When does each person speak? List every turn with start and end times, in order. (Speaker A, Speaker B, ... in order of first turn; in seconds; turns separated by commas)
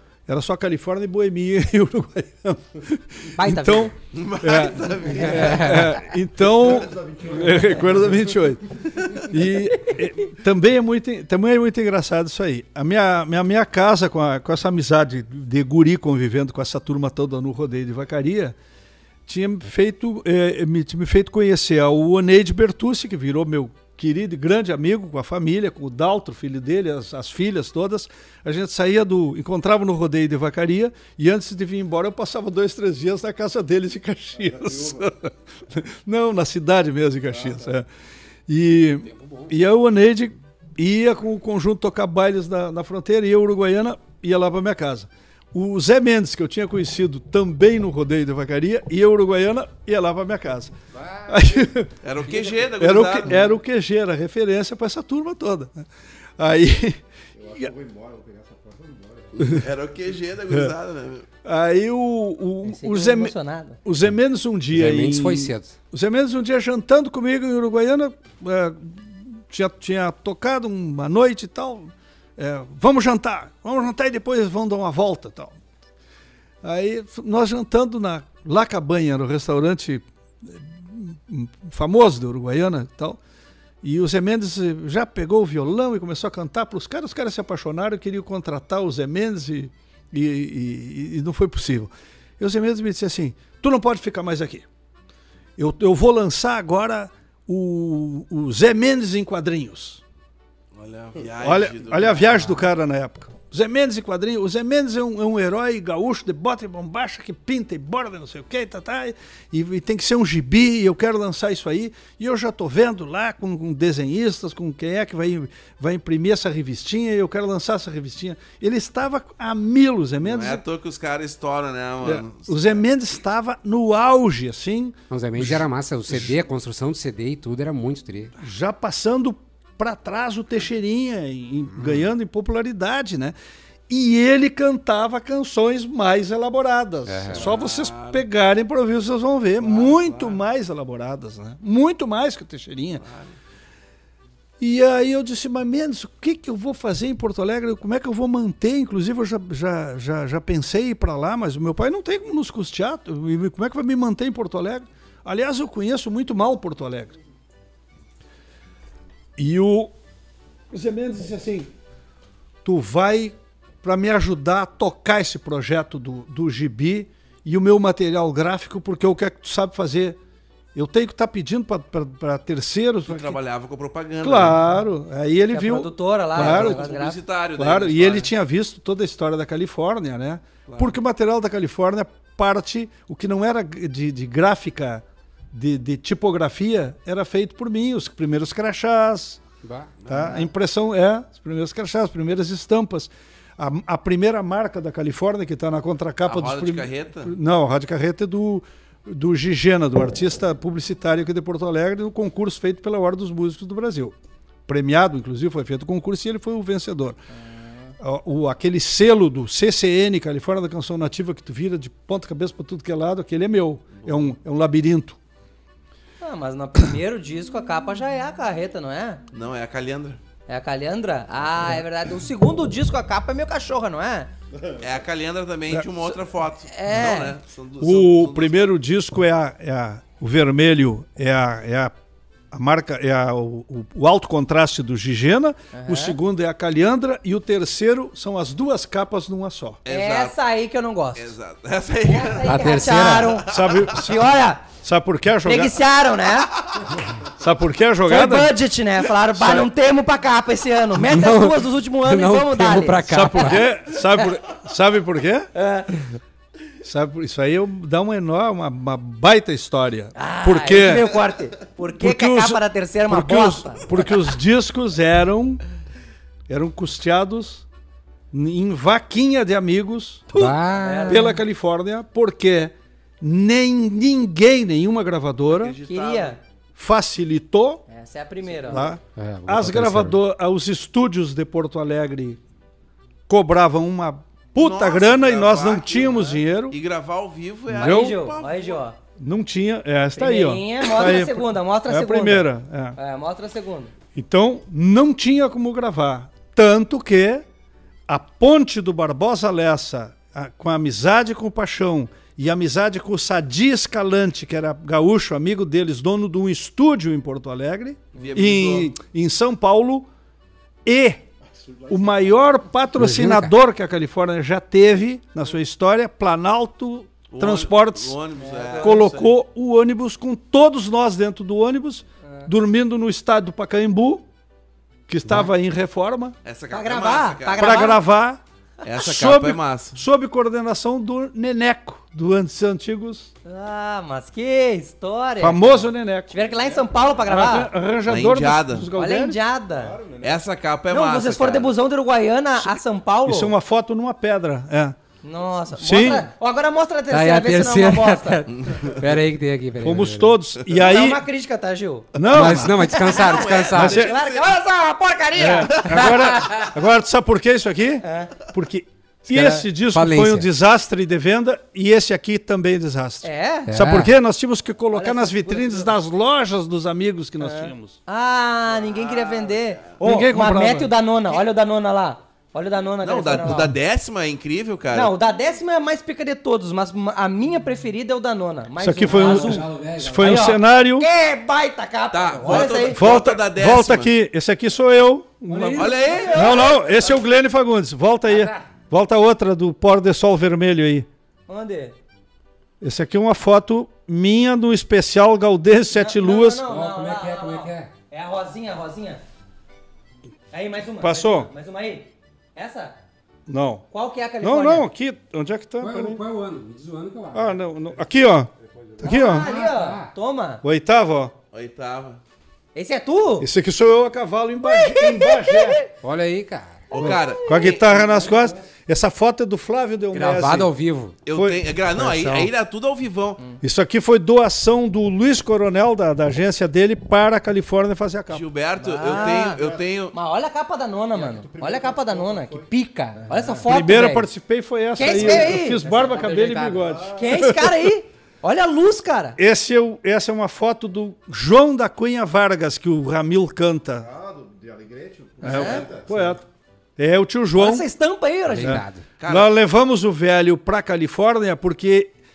Speaker A: 0.3-18.6, Speaker B: 3.4-3.9, Speaker C: 4.1-6.0, Speaker D: 5.0-8.4, Speaker A: 19.3-37.9, Speaker D: 34.4-35.1, Speaker D: 37.3-37.7, Speaker A: 38.5-50.7, Speaker E: 39.0-39.5, Speaker D: 50.9-51.7, Speaker A: 51.3-57.0, Speaker C: 52.0-53.4, Speaker D: 57.4-59.7, Speaker C: 59.4-61.3, Speaker A: 61.4-75.6, Speaker B: 62.6-63.8, Speaker E: 64.7-65.8, Speaker A: 76.6-83.2, Speaker A: 83.8-94.7, Speaker A: 95.6-100.0, Speaker C: 100.8-102.4, Speaker A: 101.4-120.6, Speaker C: 120.2-122.8, Speaker A: 122.0-126.4, Speaker E: 125.1-128.3, Speaker A: 128.4-133.4, Speaker E: 131.8-132.1, Speaker A: 133.9-143.0, Speaker E: 137.1-137.5, Speaker C: 137.3-138.2, Speaker C: 139.6-140.4, Speaker C: 143.0-143.3, Speaker A: 144.6-157.2, Speaker A: 159.4-159.9, Speaker A: 160.7-161.7, Speaker A: 162.6-170.2, Speaker A: 170.7-173.4, Speaker C: 173.1-174.6, Speaker A: 174.2-176.9, Speaker B: 175.5-177.2, Speaker C: 176.3-178.3, Speaker A: 177.6-189.4, Speaker C: 180.7-181.0, Speaker E: 189.6-190.0, Speaker C: 190.0-190.5, Speaker A: 190.1-204.2, Speaker C: 196.2-197.3, Speaker A: 204.7-207.2, Speaker B: 207.4-207.9, Speaker A: 208.0-215.2, Speaker C: 214.0-214.3, Speaker B: 216.2-219.2, Speaker C: 219.3-220.2, Speaker B: 220.5-224.3, Speaker D: 224.5-225.0, Speaker C: 224.8-228.7, Speaker B: 226.7-227.4, Speaker A: 227.8-231.9, Speaker A: 232.5-239.8, Speaker B: 235.7-236.2, Speaker C: 239.8-240.4, Speaker B: 239.9-241.3, Speaker C: 241.2-242.7, Speaker B: 242.0-244.7, Speaker E: 242.5-243.5, Speaker C: 243.3-243.9, Speaker A: 243.5-245.8, Speaker B: 245.4-246.5, Speaker A: 247.2-248.5, Speaker B: 248.1-253.5, Speaker A: 249.3-249.7, Speaker E: 251.0-253.8, Speaker A: 253.1-255.5, Speaker B: 255.5-256.1, Speaker A: 256.8-261.1, Speaker B: 260.1-263.9, Speaker A: 262.0-265.6, Speaker A: 266.5-267.7, Speaker A: 268.3-275.8, Speaker E: 270.3-271.3, Speaker B: 270.8-271.4, Speaker C: 275.5-276.4, Speaker B: 275.9-276.4, Speaker A: 276.8-277.8, Speaker B: 277.9-278.9, Speaker A: 278.7-282.4, Speaker E: 279.1-280.2, Speaker A: 283.3-286.8, Speaker C: 284.6-288.8, Speaker A: 287.7-288.2, Speaker B: 287.8-289.0, Speaker A: 289.2-293.0, Speaker B: 290.2-293.9, Speaker A: 294.1-297.4, Speaker A: 298.1-310.1, Speaker C: 308.1-308.9, Speaker A: 310.9-311.2, Speaker D: 311.4-312.5, Speaker A: 311.9-318.2, Speaker E: 313.0-313.5, Speaker C: 317.3-319.3, Speaker B: 318.4-319.1, Speaker A: 318.8-324.2, Speaker A: 325.1-326.4, Speaker C: 326.4-328.0, Speaker B: 326.7-328.0, Speaker A: 327.6-328.4, Speaker C: 328.8-330.0, Speaker A: 329.0-333.3, Speaker B: 333.4-337.7, Speaker A: 335.4-336.4, Speaker A: 337.3-339.4, Speaker C: 338.1-338.9, Speaker B: 338.9-340.0, Speaker D: 339.7-340.4, Speaker C: 340.2-341.7, Speaker B: 340.9-343.6, Speaker A: 343.2-345.0, Speaker B: 345.2-348.4, Speaker A: 345.8-346.3, Speaker E: 347.1-350.4, Speaker C: 348.5-349.0, Speaker A: 349.8-351.2, Speaker B: 350.7-356.7, Speaker A: 352.1-352.8, Speaker C: 352.2-354.6, Speaker E: 352.3-354.1, Speaker A: 353.7-354.1, Speaker A: 355.4-368.0, Speaker B: 358.0-358.3, Speaker E: 359.3-360.5, Speaker B: 363.2-363.7, Speaker E: 363.7-364.1, Speaker B: 364.9-365.9, Speaker B: 367.4-373.7, Speaker C: 368.7-369.9, Speaker A: 370.0-370.9, Speaker C: 373.0-375.1, Speaker B: 374.9-383.0, Speaker A: 378.8-381.1, Speaker E: 379.1-380.4, Speaker C: 382.1-384.1, Speaker A: 382.5-391.1, Speaker B: 385.5-387.1, Speaker C: 385.7-386.7, Speaker B: 391.5-391.9, Speaker A: 392.8-396.6, Speaker B: 395.9-399.2, Speaker E: 396.6-397.9, Speaker B: 400.5-403.0, Speaker A: 401.0-401.5, Speaker A: 403.5-403.9, Speaker B: 403.9-404.9, Speaker A: 404.4-406.2, Speaker E: 405.8-407.5, Speaker A: 407.3-409.5, Speaker E: 409.0-410.1, Speaker B: 409.0-410.6, Speaker A: 410.6-411.3, Speaker C: 411.5-412.2, Speaker B: 412.8-413.5, Speaker A: 413.4-415.8, Speaker B: 414.6-415.9, Speaker E: 416.0-416.9, Speaker B: 416.9-417.8, Speaker C: 416.9-418.5, Speaker A: 417.0-420.7, Speaker E: 420.1-421.2, Speaker C: 421.3-423.4, Speaker A: 421.3-421.7, Speaker B: 422.0-422.5, Speaker A: 423.6-428.4, Speaker C: 428.3-430.2, Speaker B: 428.8-429.6, Speaker D: 429.0-429.9, Speaker B: 430.1-434.3, Speaker D: 431.1-432.7, Speaker A: 433.7-437.9, Speaker B: 434.9-439.4, Speaker D: 435.1-435.6, Speaker D: 436.7-437.5, Speaker A: 439.4-444.1, Speaker D: 444.0-446.4, Speaker A: 445.4-446.4, Speaker B: 445.4-445.9, Speaker A: 447.0-447.9, Speaker B: 447.6-448.8, Speaker E: 448.5-449.1, Speaker A: 448.6-452.1, Speaker C: 449.2-449.5